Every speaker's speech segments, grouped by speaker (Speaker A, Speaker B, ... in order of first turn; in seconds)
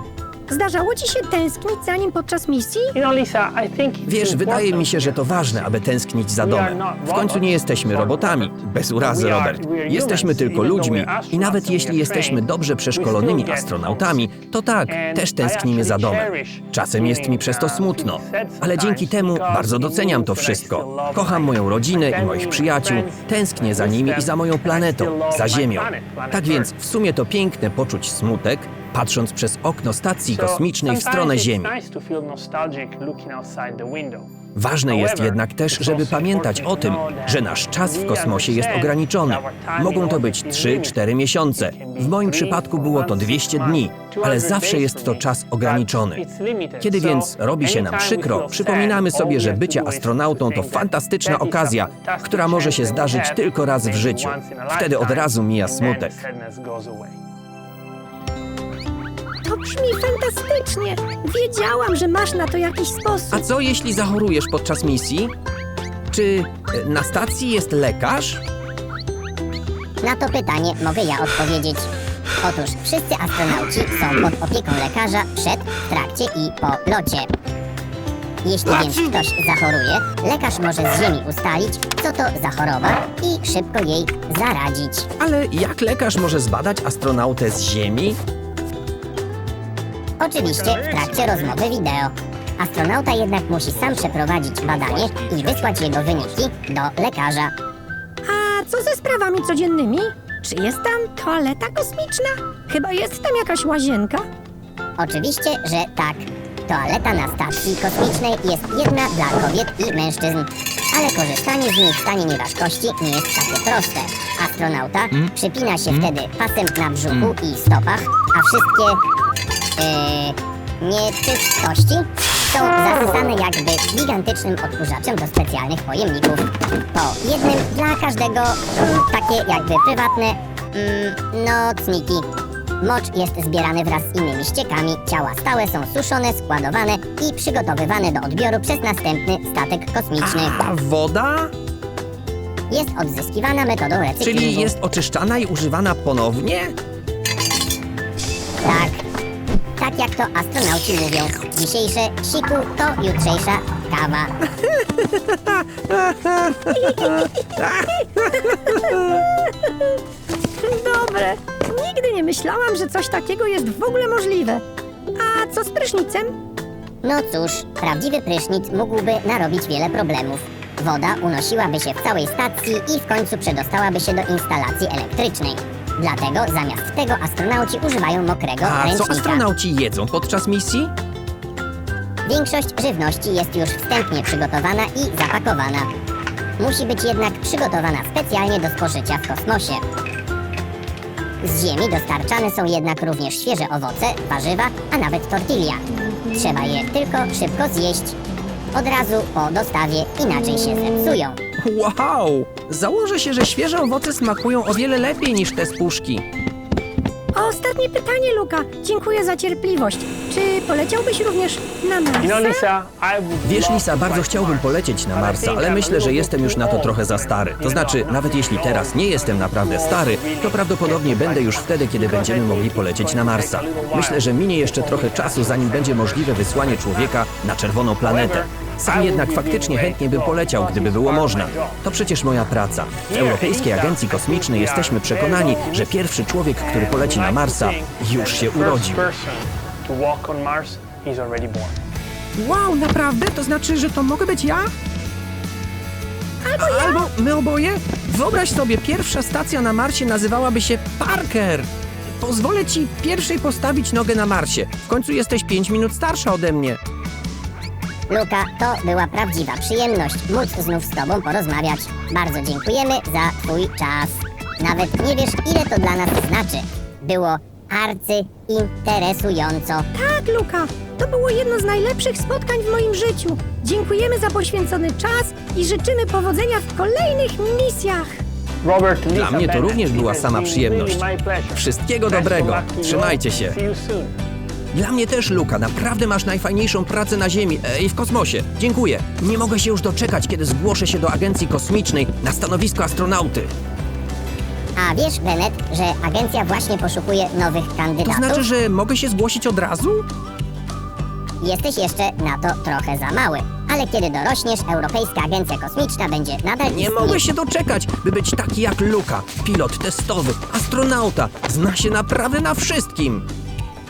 Speaker A: 0.5-2.9, 59.4-63.4, 98.2-104.2, 156.8-157.2, 158.4-158.9, 160.6-164.6, 165.1-166.3, 207.3-212.7, 246.4-247.1, 269.9-278.1
Speaker B: 2.9-5.7, 6.4-14.3, 14.9-26.7, 30.3-34.3, 34.9-41.0, 41.5-57.2, 90.7-91.6, 212.2-227.2, 228.0-231.8, 233.1-241.8, 278.6-284.1
Speaker C: 4.1-31.7, 34.6-46.2, 46.8-56.2, 63.3-65.3, 66.1-68.4, 85.2-88.2, 140.2-141.5, 144.2-146.8, 154.6-159.2, 178.6-180.9, 201.6-206.2, 213.4-239.1, 242.4-244.7, 246.6-256.8, 279.1-283.6, 284.7-293.5, 298.0-300.1, 306.7-313.3
Speaker D: 70.0-71.9, 72.4-77.3, 78.4-85.1, 90.2-97.5, 105.0-119.0, 119.8-132.3, 132.8-140.6, 142.7-144.7, 148.6-149.0, 149.8-154.3, 167.0-179.4, 182.2-185.9, 186.6-189.8, 191.4-198.2, 198.7-201.4, 258.1-269.9, 294.8-298.5, 301.4-307.2